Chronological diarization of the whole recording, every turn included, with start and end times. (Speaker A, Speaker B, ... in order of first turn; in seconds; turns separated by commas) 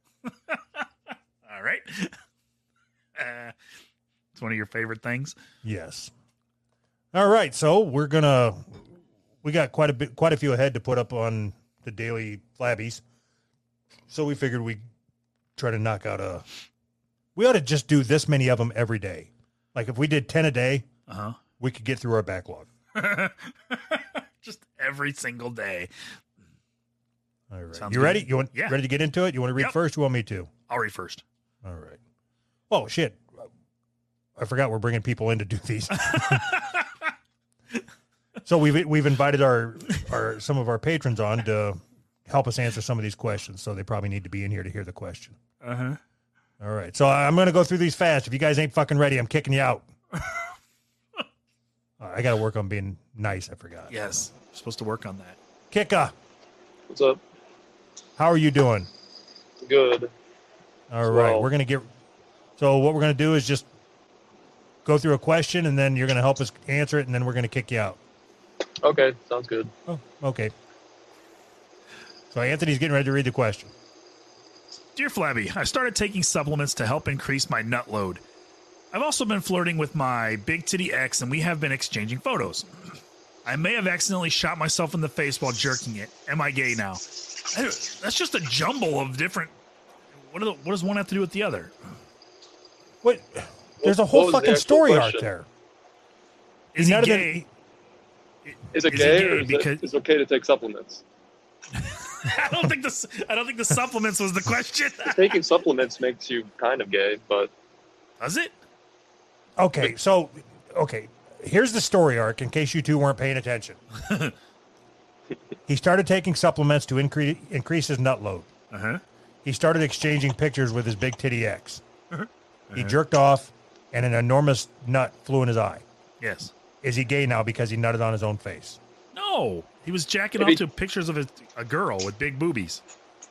Speaker A: 1.4-2.1, Speaker A: 3.1-3.5, Speaker A: 4.3-5.3, Speaker B: 5.6-6.1, Speaker B: 7.1-8.8, Speaker B: 9.4-13.0, Speaker B: 14.1-14.8, Speaker B: 15.6-16.4, Speaker B: 17.4-20.9, Speaker A: 21.1-21.4, Speaker B: 21.6-22.7, Speaker A: 22.9-25.9, Speaker B: 27.5-30.5, Speaker A: 27.8-28.8, Speaker A: 30.7-31.2, Speaker B: 31.6-32.0, Speaker B: 32.7-33.5, Speaker B: 34.4-36.5, Speaker A: 36.1-36.7, Speaker B: 38.5-45.4, Speaker A: 45.6-46.0, Speaker B: 46.6-49.9, Speaker B: 52.0-54.0, Speaker A: 53.9-55.4, Speaker B: 55.7-56.1, Speaker C: 56.9-57.2, Speaker B: 58.2-58.9, Speaker C: 59.6-60.1, Speaker B: 60.9-61.9, Speaker C: 61.0-61.5, Speaker B: 62.6-63.6, Speaker B: 64.8-68.0, Speaker C: 68.8-69.7, Speaker B: 69.9-70.5, Speaker B: 72.3-73.7, Speaker A: 74.9-78.2, Speaker A: 78.9-82.7, Speaker A: 83.4-89.5, Speaker A: 90.2-91.7, Speaker B: 93.0-95.5, Speaker C: 93.8-95.3, Speaker A: 96.7-97.3, Speaker B: 96.8-97.5, Speaker A: 98.5-99.8, Speaker C: 98.7-101.0, Speaker A: 101.8-105.3, Speaker C: 105.1-107.5, Speaker A: 108.2-108.5, Speaker B: 109.6-113.8, Speaker A: 114.0-114.3, Speaker B: 115.7-118.5, Speaker A: 118.7-119.0, Speaker B: 119.4-121.8, Speaker A: 122.1-122.9, Speaker B: 122.7-125.8, Speaker A: 126.2-126.5, Speaker B: 126.8-128.8, Speaker A: 129.1-132.8